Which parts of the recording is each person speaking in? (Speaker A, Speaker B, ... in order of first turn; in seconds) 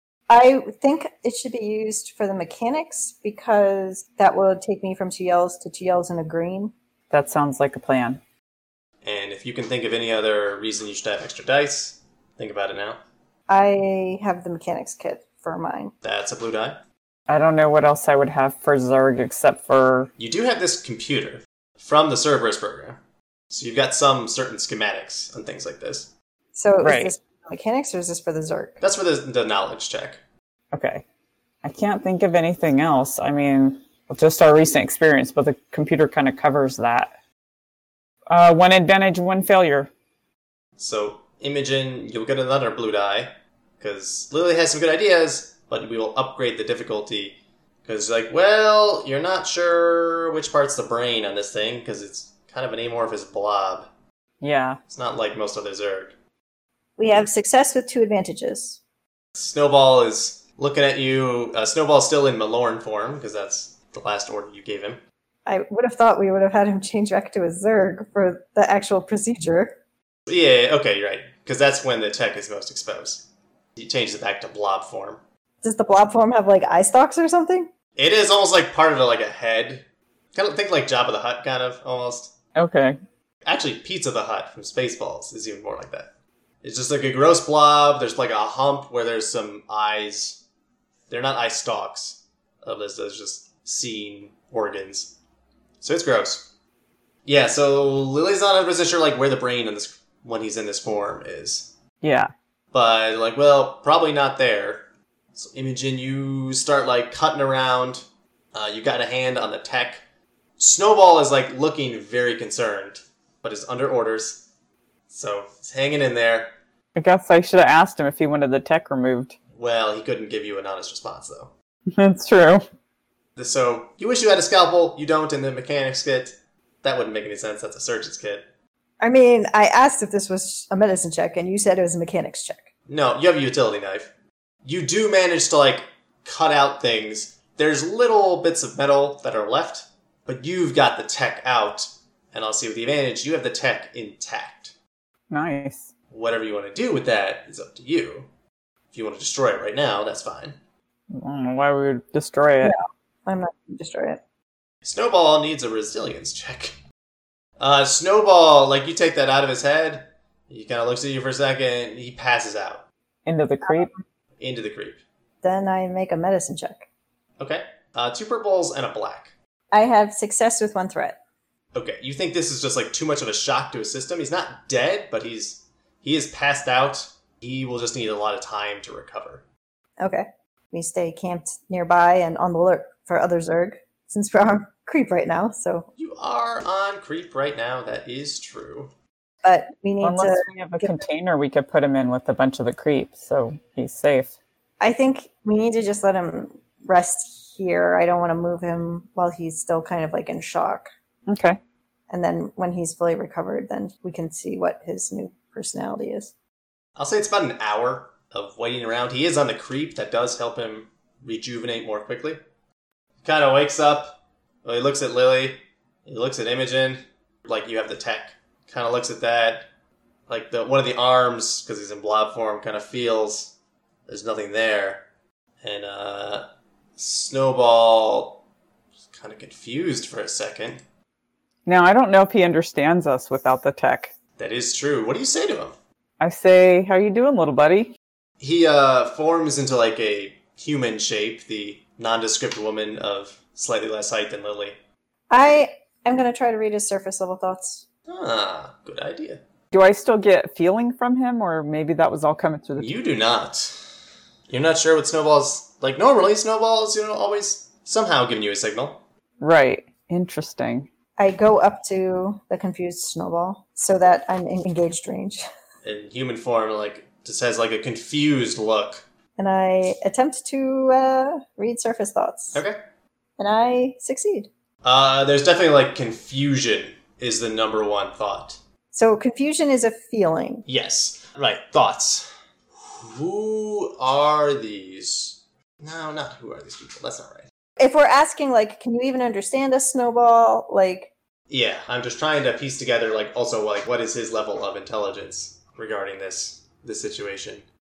Speaker A: 0.3-6.7, 13.5-15.9, 26.5-28.8, 57.0-58.8, 65.5-69.7, 75.6-77.7, 129.0-132.7, 152.6-154.2, 165.4-166.8, 169.7-171.2, 180.0-185.9, 189.4-191.0, 194.8-200.9, 202.1-206.3, 245.3-247.8, 261.2-265.4, 269.4-272.6, 273.4-274.5, 278.9-280.6, 287.8-291.1
Speaker B: 7.1-8.2, 17.3-20.1, 26.8-27.1, 30.7-31.0, 31.6-37.1, 38.3-39.9, 54.4-54.8, 82.5-83.0, 102.0-102.3, 116.9-119.3, 121.9-122.6, 145.3-145.9, 151.1-152.8, 163.2-163.9, 190.0-194.3, 201.3-201.6, 231.7-234.1, 236.2-237.9, 249.7-252.9, 259.4-260.9
Speaker C: 9.0-13.0, 16.0-16.8, 20.2-23.0, 23.5-26.1, 28.8-30.2, 40.8-53.9, 54.9-56.1, 59.3-65.0, 70.3-75.2, 78.0-82.3, 83.4-86.1, 86.6-90.4, 91.1-95.1, 95.8-96.5, 97.2-101.7, 102.7-110.0, 110.6-114.4, 115.1-116.5, 119.5-121.5, 123.3-128.4, 132.9-134.1, 134.6-144.7, 146.1-148.3, 148.9-150.6, 154.8-156.7, 157.6-162.8, 164.4-165.0, 167.4-169.3, 171.7-179.4, 186.0-188.9, 206.9-212.4, 213.2-219.7, 220.3-223.5, 224.1-225.0, 225.6-226.4, 226.9-228.4, 229.1-230.8, 234.4-235.7, 238.4-244.8, 248.1-249.4, 252.8-253.8, 254.5-259.0, 265.8-269.0, 274.8-278.6, 280.7-287.5, 291.5-297.6